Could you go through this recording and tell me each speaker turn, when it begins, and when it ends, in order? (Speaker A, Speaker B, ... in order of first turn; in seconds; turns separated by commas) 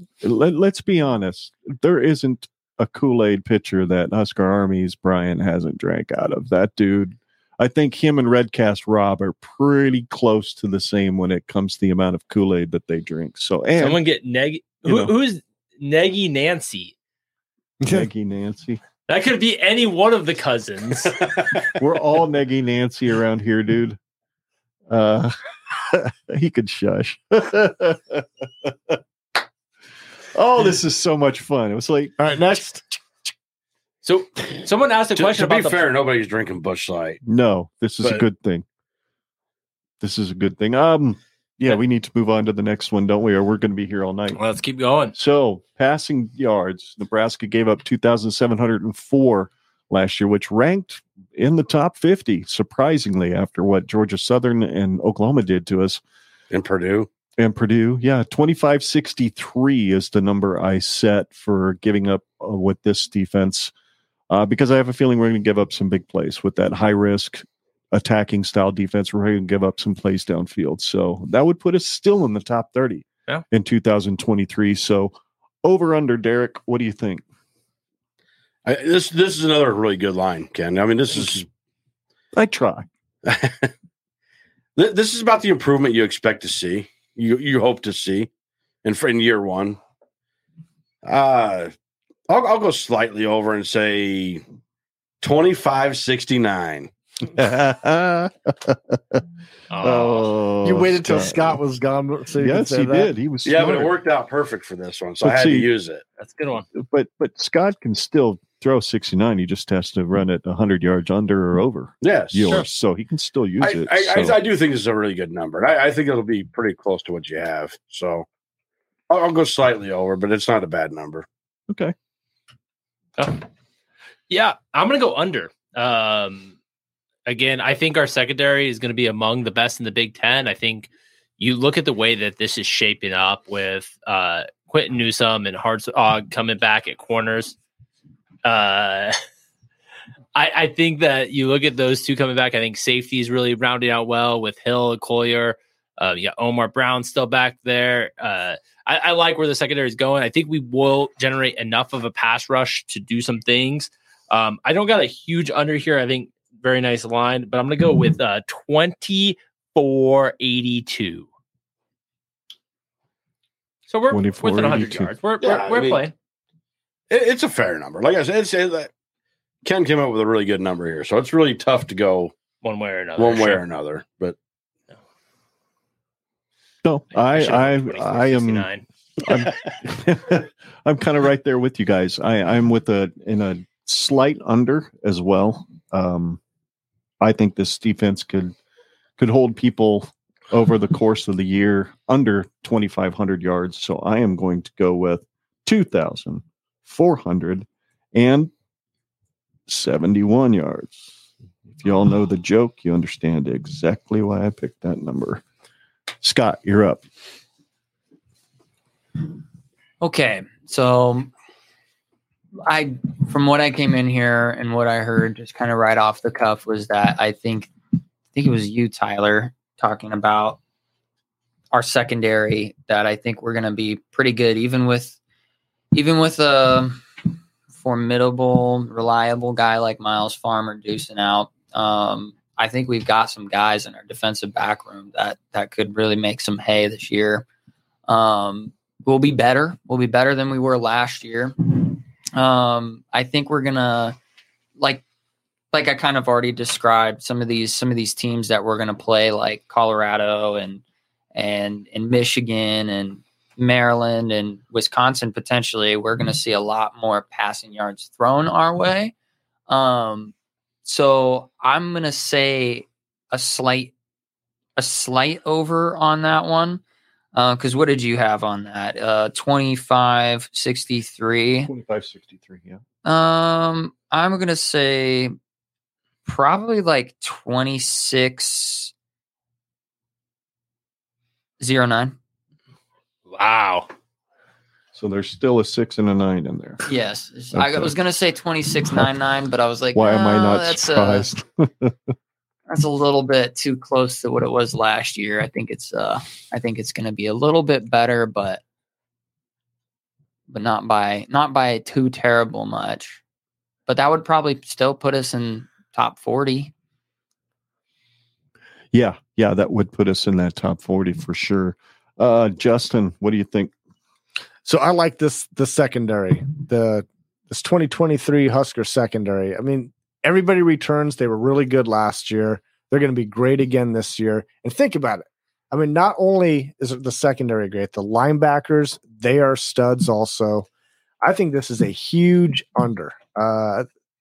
Speaker A: 0.2-14.0, Speaker B: 13.8-16.9, Speaker A: 14.8-15.1, Speaker C: 17.8-18.1, Speaker A: 17.9-18.8, Speaker B: 19.1-21.6, Speaker A: 21.8-24.0, Speaker A: 24.9-29.0, Speaker A: 30.3-32.1, Speaker C: 32.2-33.0, Speaker B: 34.0-35.9, Speaker D: 35.1-37.2, Speaker A: 37.2-38.6, Speaker A: 40.0-44.4, Speaker B: 44.3-45.1, Speaker A: 45.1-56.0, Speaker D: 56.5-57.1, Speaker A: 57.4-63.7, Speaker A: 64.3-77.2, Speaker D: 78.6-81.5, Speaker A: 82.3-82.9, Speaker D: 83.2-83.7, Speaker D: 84.8-88.3, Speaker D: 88.8-89.8, Speaker D: 91.0-91.7, Speaker D: 92.3-94.4, Speaker D: 95.2-96.9, Speaker A: 97.2-99.2, Speaker B: 99.7-100.3, Speaker A: 99.8-101.6, Speaker C: 100.6-103.1, Speaker A: 102.4-103.9, Speaker D: 103.4-106.0, Speaker A: 105.2-105.7, Speaker B: 106.2-106.7, Speaker A: 106.7-114.4, Speaker D: 112.0-112.6, Speaker D: 113.6-118.2, Speaker D: 119.1-121.3, Speaker B: 123.2-123.4, Speaker B: 124.3-126.5, Speaker B: 127.2-137.6, Speaker B: 138.4-139.2, Speaker B: 140.3-161.3, Speaker B: 163.9-166.1, Speaker A: 164.1-165.1, Speaker D: 165.4-166.0, Speaker D: 167.1-168.9, Speaker D: 169.6-172.3, Speaker B: 172.6-173.6, Speaker D: 173.2-174.3, Speaker A: 176.8-178.7, Speaker B: 177.1-178.8, Speaker A: 179.2-186.4, Speaker A: 187.2-188.5, Speaker A: 189.2-198.5, Speaker A: 199.7-201.1, Speaker A: 201.7-205.4, Speaker A: 206.2-207.0, Speaker E: 210.0-211.3, Speaker E: 212.6-217.7, Speaker E: 218.3-220.6, Speaker E: 221.7-225.2, Speaker E: 225.9-227.0, Speaker E: 227.8-237.4, Speaker E: 238.1-244.2, Speaker E: 244.8-245.0, Speaker E: 245.7-250.8, Speaker E: 251.3-259.1, Speaker E: 259.7-260.3, Speaker E: 260.8-263.9, Speaker E: 264.8-266.8, Speaker E: 267.3-271.7, Speaker A: 271.6-272.8, Speaker E: 273.0-275.3, Speaker E: 276.2-278.9, Speaker E: 281.6-282.1, Speaker B: 283.3-283.9, Speaker A: 284.9-286.8, Speaker E: 286.9-291.3, Speaker A: 287.5-287.9, Speaker A: 289.9-291.9, Speaker E: 292.7-298.6, Speaker E: 300.5-303.2, Speaker E: 303.9-306.7, Speaker A: 308.9-313.7, Speaker C: 314.6-330.6, Speaker C: 331.2-333.9